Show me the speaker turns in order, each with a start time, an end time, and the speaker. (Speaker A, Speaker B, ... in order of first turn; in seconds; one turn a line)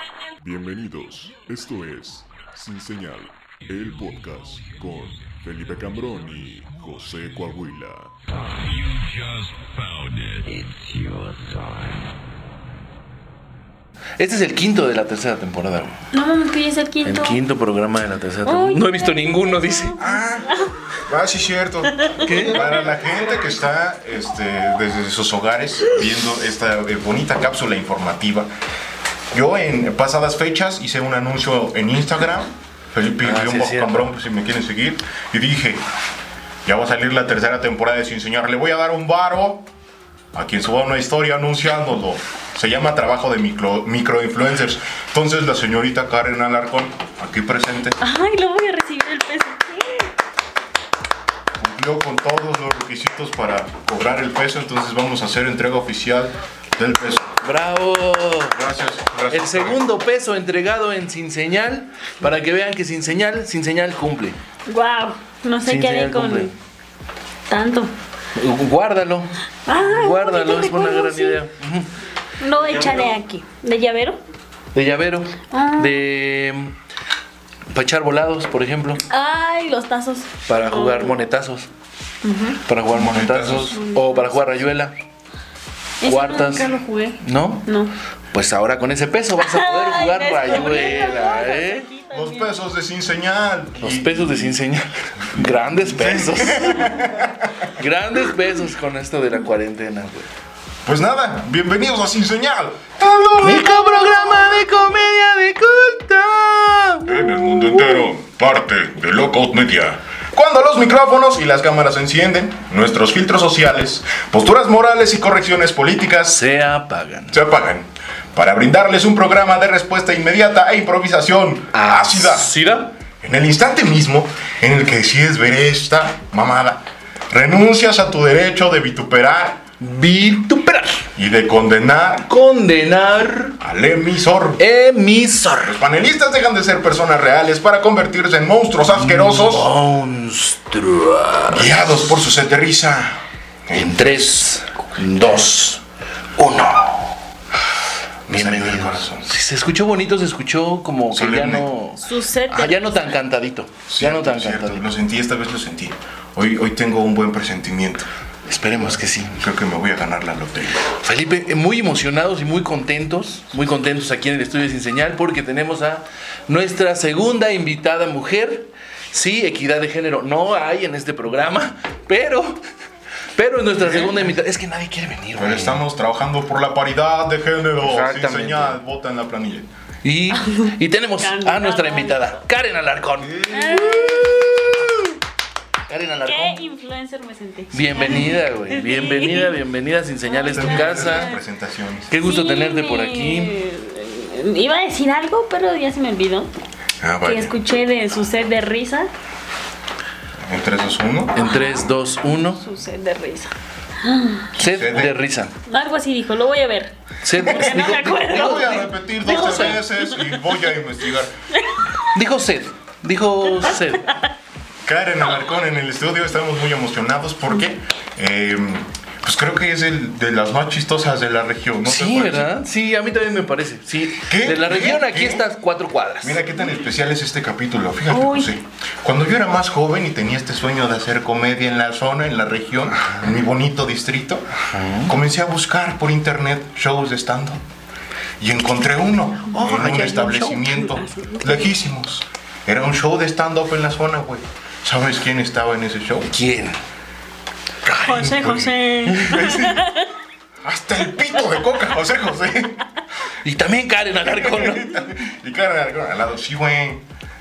Speaker A: 0.4-8.1
Speaker B: 8.7-9.2
Speaker A: 8.9-10.4
Speaker B: 10.4-12.0
Speaker C: 14.2-16.0
Speaker D: 16.1-17.4
Speaker C: 17.0-20.5
Speaker D: 18.4-20.7
Speaker E: 21.1-28.5
Speaker C: 22.2-22.9
Speaker E: 29.3-35.8
Speaker C: 33.2-34.1
Speaker E: 36.6-39.7
Speaker E: 40.3-48.0
Speaker D: 48.0-50.1
Speaker E: 51.6-57.2
Speaker C: 57.4-58.6
Speaker E: 58.5-59.8
Speaker C: 59.3-64.4
Speaker D: 64.7-66.5
Speaker C: 65.7-66.5
Speaker D: 67.5-67.9
Speaker C: 68.3-71.9
Speaker D: 69.7-71.4
Speaker D: 72.4-74.2
Speaker C: 74.7-76.7
Speaker D: 75.5-76.0
Speaker C: 77.7-79.0
Speaker D: 79.1-81.2
Speaker C: 80.5-81.7
Speaker D: 82.2-82.6
Speaker C: 82.7-84.9
Speaker E: 82.9-83.8
Speaker D: 83.7-84.3
Speaker D: 86.0-87.9
Speaker C: 86.0-87.7
Speaker C: 88.3-91.9
Speaker D: 89.4-92.6
Speaker E: 92.1-94.6
Speaker C: 93.8-97.0
Speaker E: 95.8-97.7
Speaker C: 97.8-100.3
Speaker E: 100.8-104.5
Speaker C: 103.4-107.1
Speaker E: 107.0-116.4
Speaker C: 116.3-117.3
Speaker E: 117.3-122.5
Speaker C: 121.7-122.9
Speaker E: 123.2-129.7
Speaker C: 129.8-131.1
Speaker E: 131.1-132.3
Speaker C: 132.3-133.6
Speaker E: 133.6-134.6
Speaker C: 134.6-135.8
Speaker E: 135.6-139.7
Speaker C: 138.9-141.9
Speaker E: 141.5-144.5
Speaker C: 143.7-145.8
Speaker C: 146.3-147.1
Speaker E: 148.3-149.3
Speaker C: 148.3-154.8
Speaker E: 151.1-151.7
Speaker D: 152.0-153.1
Speaker E: 153.9-158.1
Speaker C: 158.5-159.4
Speaker E: 159.4-160.9
Speaker C: 161.0-172.6
Speaker C: 173.3-175.8
Speaker E: 173.8-174.3
Speaker E: 175.4-179.7
Speaker C: 177.8-178.8
Speaker C: 180.0-185.1
Speaker D: 180.3-182.4
Speaker E: 183.3-183.9
Speaker D: 183.5-184.5
Speaker C: 185.9-186.6
Speaker D: 186.2-189.5
Speaker C: 187.7-191.3
Speaker D: 190.3-191.4
Speaker E: 190.5-192.1
Speaker C: 192.1-193.5
Speaker D: 192.2-196.5
Speaker E: 197.0-197.5
Speaker D: 197.2-199.1
Speaker E: 200.4-201.4
Speaker C: 201.3-202.6
Speaker D: 201.3-204.5
Speaker C: 204.6-205.5
Speaker E: 204.6-205.2
Speaker D: 205.7-210.3
Speaker C: 207.2-209.8
Speaker E: 207.5-211.3
Speaker D: 211.5-211.9
Speaker C: 212.1-214.1
Speaker E: 214.8-222.5
Speaker C: 221.8-226.4
Speaker E: 224.2-225.4
Speaker E: 226.2-234.5
Speaker D: 228.1-228.5
Speaker C: 234.7-235.1
Speaker E: 235.0-237.6
Speaker E: 238.4-246.3
Speaker C: 239.5-240.6
Speaker D: 240.3-241.7
Speaker C: 246.3-246.8
Speaker C: 247.8-248.4
Speaker D: 248.0-250.1
Speaker E: 248.1-249.8
Speaker E: 250.6-252.8
Speaker C: 253.4-255.1
Speaker E: 254.3-257.0